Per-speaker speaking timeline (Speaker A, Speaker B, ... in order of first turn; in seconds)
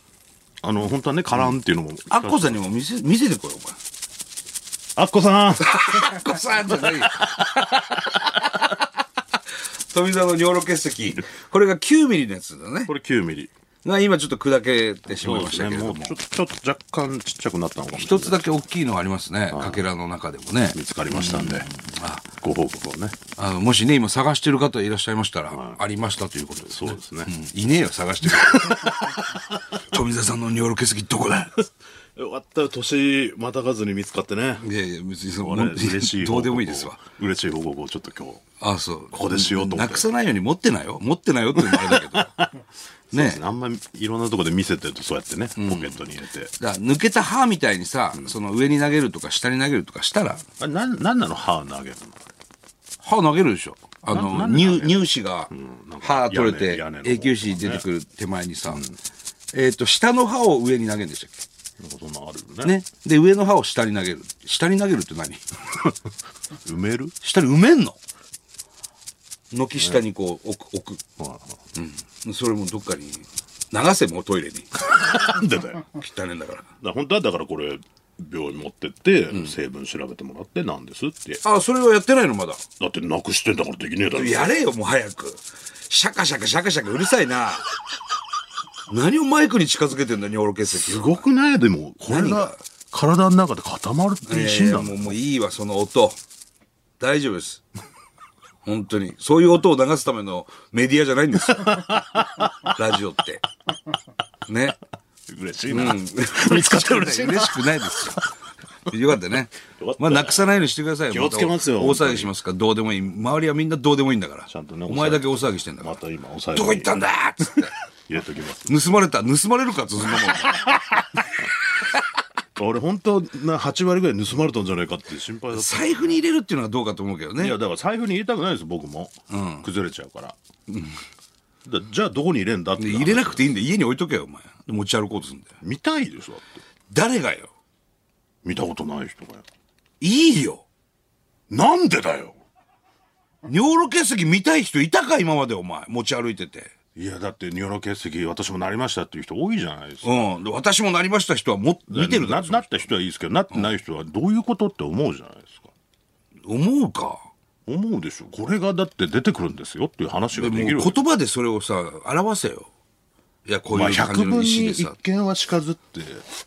Speaker A: 0.6-2.6, 5.0-8.0, 12.9-13.5, 15.1-18.4, 19.5-19.9, 20.7-21.7, 22.4-23.2, 25.5-25.8, 26.6-27.3, 28.3-29.2, 32.2-34.6, 35.4-38.4, 39.1-40.1, 41.6-42.5, 43.1-46.5, 50.6-52.3, 54.1-57.9, 58.7-59.0, 61.8-62.8, 66.7-67.1, 69.8-70.0, 71.2-71.6, 74.8-75.8, 76.8-81.4, 82.8-84.5, 90.7-95.2, 101.5-102.5, 105.3-108.2, 109.8-110.6, 111.1-112.3, 114.5-117.0, 118.1-119.0, 120.2-120.7, 122.6-126.2, 127.4-130.4, 131.7-133.5, 135.6-136.6, 138.4-139.4, 141.5-142.4, 147.0-150.3, 151.9-155.7, 157.7-161.0, 163.7-166.2
Speaker B: 2.1-3.8, 5.6-8.7, 9.9-12.9, 13.8-16.2, 17.9-22.3, 23.4-29.2, 29.7-31.7, 34.6-37.0, 38.6-42.5, 43.1-43.4, 45.6-50.4, 53.0-58.9, 59.5-61.5, 62.6-65.5, 67.2-68.0, 69.5-71.0, 71.8-74.7, 75.9-76.7, 81.4-82.6, 84.1-87.7, 88.9-91.2, 92.1-92.6, 94.3-96.2, 97.0-97.6, 98.7-103.5, 104.5-104.8, 105.7-108.2, 108.9-116.0, 116.5-117.8, 118.7-121.2, 125.5-127.6, 129.3-129.7, 130.7-131.0, 132.8-135.5, 136.9-137.5, 140.0-140.7, 143.4-146.7, 150.0-152.9, 156.5-157.3, 160.3-162.7, 163.5-165.0